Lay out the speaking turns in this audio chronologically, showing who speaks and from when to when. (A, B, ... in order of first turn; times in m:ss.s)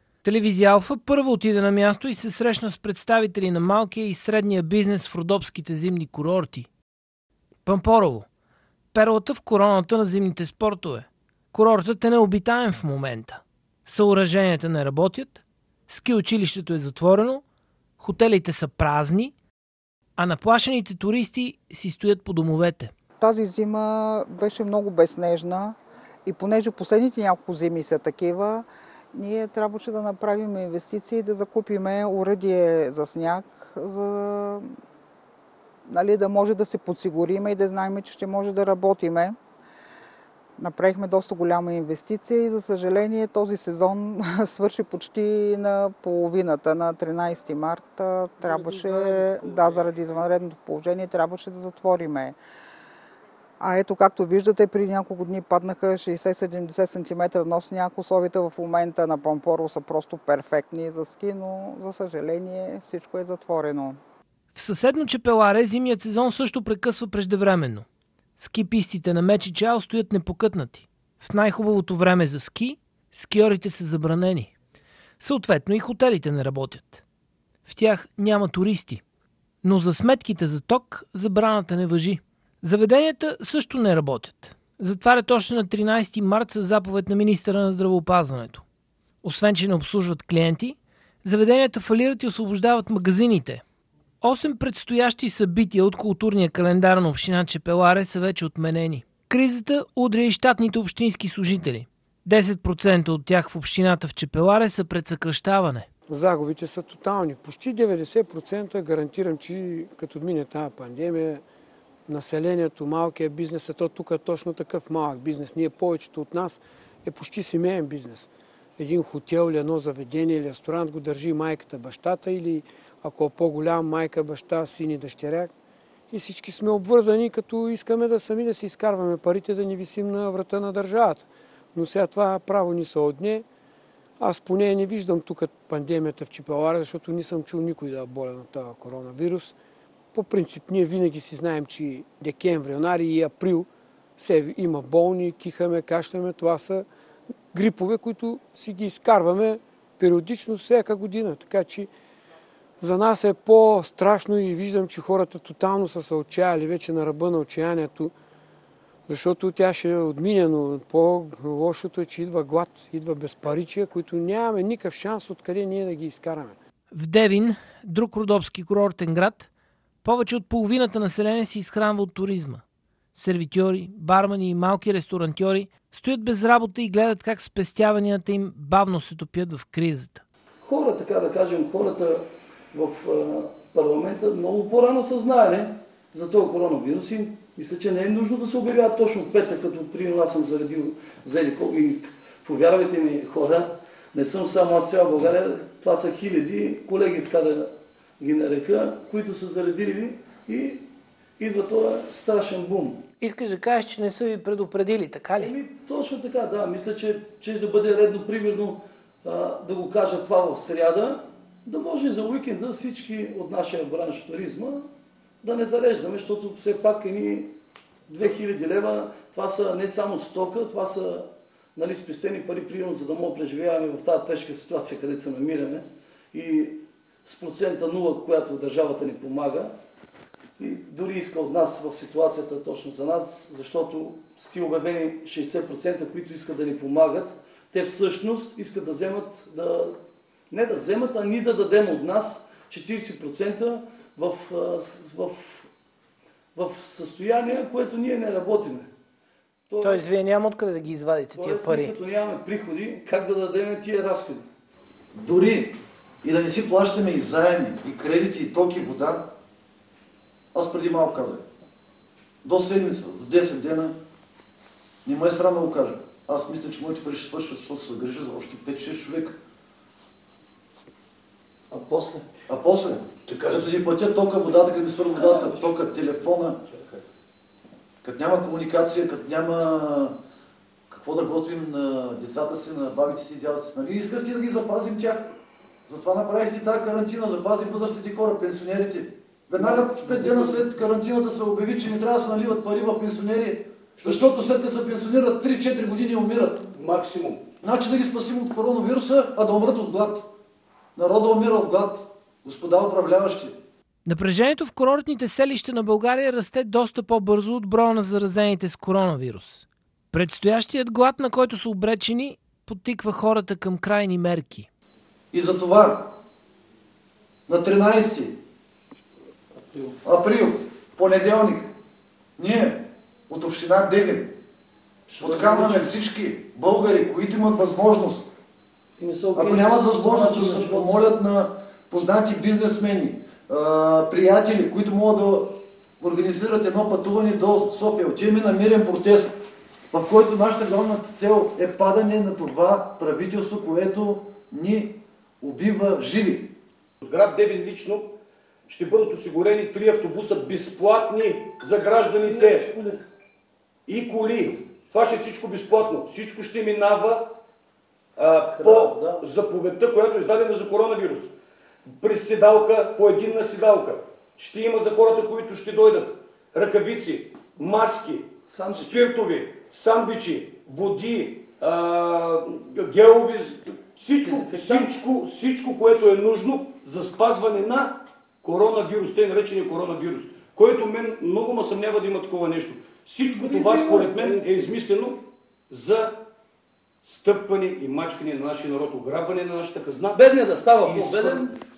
0:00.2-0:06.7 A
0:07.6-0:08.2 A
0:08.9-0:17.4 A
0:18.0-0:19.3 A
0:20.2-0:22.9 A
0:23.2-0:34.7 B
0:35.8-0:39.4 B
0:40.6-0:52.4 B
0:48.4-0:49.9 C
0:53.6-1:04.0 B
1:04.5-1:07.8 A
1:08.4-1:14.5 A
1:15.2-1:17.0 A
1:17.6-1:19.0 A
1:19.6-1:28.6 A
1:29.2-1:33.6 A
1:34.2-1:45.9 A
1:46.1-1:51.4 D
1:52.1-2:05.5 D
2:06.1-2:13.4 D
2:14.2-2:19.5 D
2:20.1-2:26.9 D
2:27.5-2:31.9 D
2:32.8-2:38.1 D
2:39.1-2:46.6 D
2:46.9-2:49.5 A
2:50.0-2:52.6 A
2:53.1-3:00.2 A
3:00.6-3:20.8 C
3:21.4-3:23.0 C
3:23.2-3:25.5 A
3:25.4-3:34.9 C
3:35.4-3:37.5 C
3:38.1-3:49.7 C
3:50.6-4:00.0 C
4:00.5-4:05.7 C
4:06.5-4:08.9 C
4:09.7-4:10.1 C
4:09.8-4:11.9 A
4:11.4-4:14.5 C
4:15.1-4:19.3 E
4:20.5-4:21.4 E
4:22.4-4:23.9 E
4:25.0-4:29.3 E
4:31.7-4:32.3 C
4:32.5-4:36.6 E
4:33.3-4:33.7 F
4:35.2-4:35.6 C
4:38.0-4:40.2 E
4:40.9-4:45.2 E
4:45.9-4:56.7 E
4:54.0-4:54.3 F
4:56.7-4:57.4 F
4:57.6-5:00.3 E
5:01.0-5:03.6 E
5:04.0-5:14.7 A
5:15.3-5:16.1 E
5:17.5-5:18.4 E
5:19.6-5:20.0 C
5:20.0-5:21.7 E
5:22.4-5:24.3 E
5:25.1-5:26.0 C
5:25.2-5:28.3 E
5:29.0-5:31.1 C
5:29.3-5:39.4 E
5:39.9-5:46.5 E
5:47.0-5:48.1 F
5:48.7-5:52.7 F
5:52.2-5:53.0 C
5:53.9-5:57.3 F
5:58.2-6:01.3 F
5:58.5-5:59.2 C
6:01.9-6:26.2 F
6:08.5-6:09.1 C
6:14.2-6:14.9 C
6:23.3-6:24.6 C
6:27.0-6:30.2 F
6:30.1-6:31.5 C
6:30.8-6:31.4 F